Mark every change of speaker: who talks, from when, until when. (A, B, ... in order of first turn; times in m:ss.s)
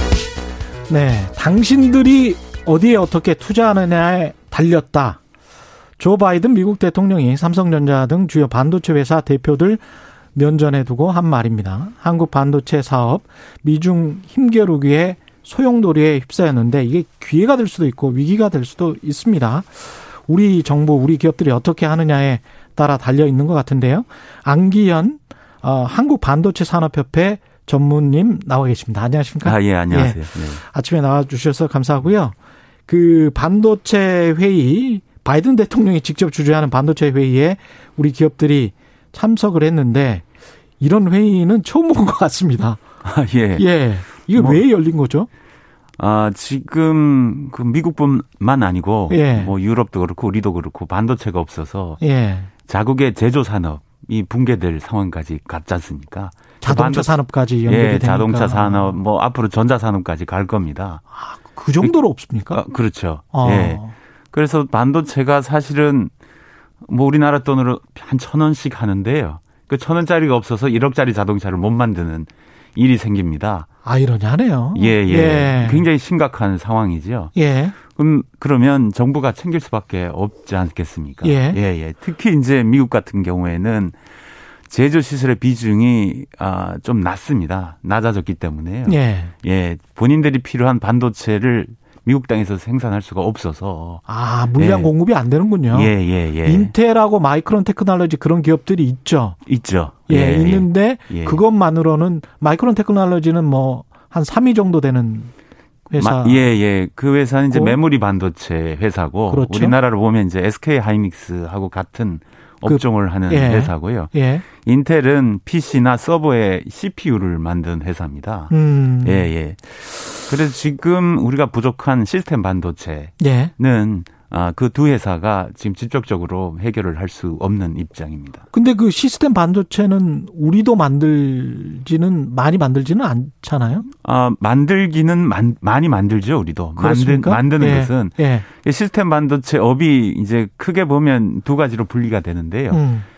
0:00.9-0:05.2 A
0:06.0-0:09.8 A
0:10.3-0:32.4 A
0:29.4-0:30.6 B
0:32.9-0:40.2 A
0:40.8-0:42.8 A
0:43.0-0:43.7 B
0:43.6-0:45.3 A
0:44.2-0:44.6 B
0:46.0-0:52.0 B
0:49.1-0:49.5 A
0:52.0-0:52.5 A
0:52.7-1:01.0 B
0:56.6-0:59.0 A
1:01.1-1:02.6 A
1:02.5-1:06.1 B
1:03.3-1:03.9 A
1:06.8-1:13.7 B
1:13.8-1:15.9 A
1:14.7-1:17.3 B
1:17.3-1:17.7 A
1:17.9-1:24.0 B
1:21.2-1:21.6 A
1:24.7-1:34.0 B
1:28.8-1:29.3 A
1:34.1-1:39.4 A
1:34.5-1:34.9 B
1:35.7-1:36.7 B
1:39.4-1:41.4 B
1:40.1-1:45.3 A
1:45.9-1:46.5 A
1:46.0-2:08.4 B
1:47.5-1:47.8 A
1:49.3-1:49.8 A
1:52.6-1:54.4 A
1:58.5-1:59.3 A
2:03.2-2:03.5 A
2:08.5-2:13.8 A
2:14.0-2:22.8 B
2:16.8-2:18.4 A
2:22.7-2:23.0 A